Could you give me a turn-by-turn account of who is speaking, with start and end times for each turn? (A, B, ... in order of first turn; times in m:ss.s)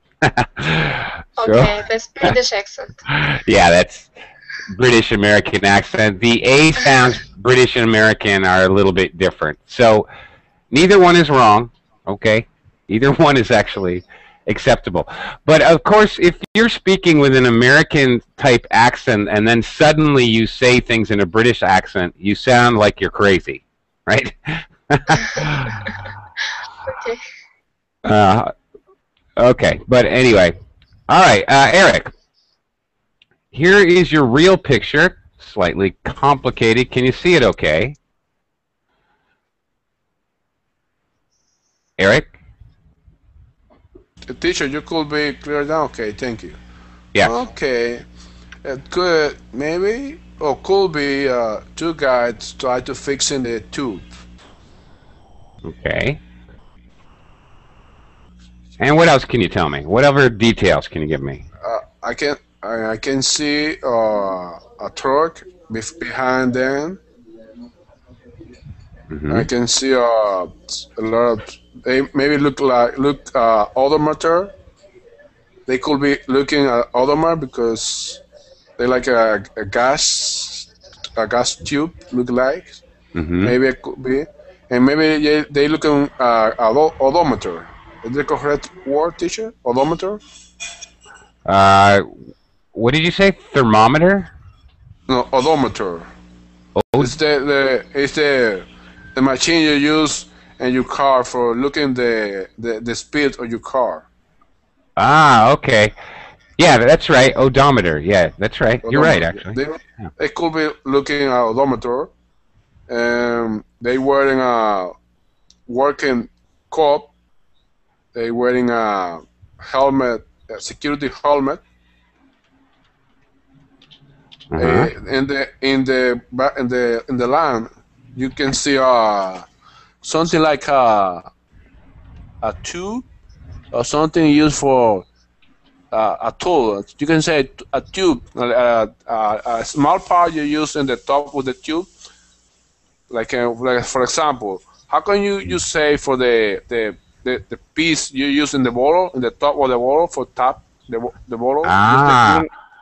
0:00.2-0:01.7 A
0:01.4-0:03.0 B
0:03.1-0:04.1 A
0:04.7-0:10.1 A
0:10.7-0:25.8 A
0:26.9-0:27.2 B
0:28.0-0:28.5 A
0:29.4-0:30.6 A
0:31.1-0:32.1 A
0:33.5-0:38.0 A
0:42.0-0:42.3 A
0:44.3-0:46.6 C
0:47.2-0:48.0 C
0:48.6-0:54.0 C
0:55.6-0:56.2 A
0:58.8-1:01.4 A
1:01.6-1:07.0 C
1:09.1-1:09.5 A
1:09.3-1:14.5 C
1:15.7-1:18.2 C
1:18.8-1:22.8 C
1:23.2-1:23.6 A
1:23.4-1:30.2 C
1:31.5-1:32.1 A
1:32.7-1:34.3 A
1:35.1-1:36.1 C
1:36.8-1:37.2 A
1:37.0-1:44.0 C
1:45.0-1:45.9 A
1:46.6-1:50.1 A
1:48.8-1:52.1 C
1:52.9-1:55.0 C
1:55.7-1:57.1 C
1:58.1-2:01.6 C
2:04.5-2:04.9 A
2:04.6-2:09.5 C
2:10.0-2:11.3 C
2:12.4-2:13.1 C
2:13.7-2:15.1 C
2:15.9-2:21.9 C
2:23.1-2:32.5 C
2:31.6-2:32.5 A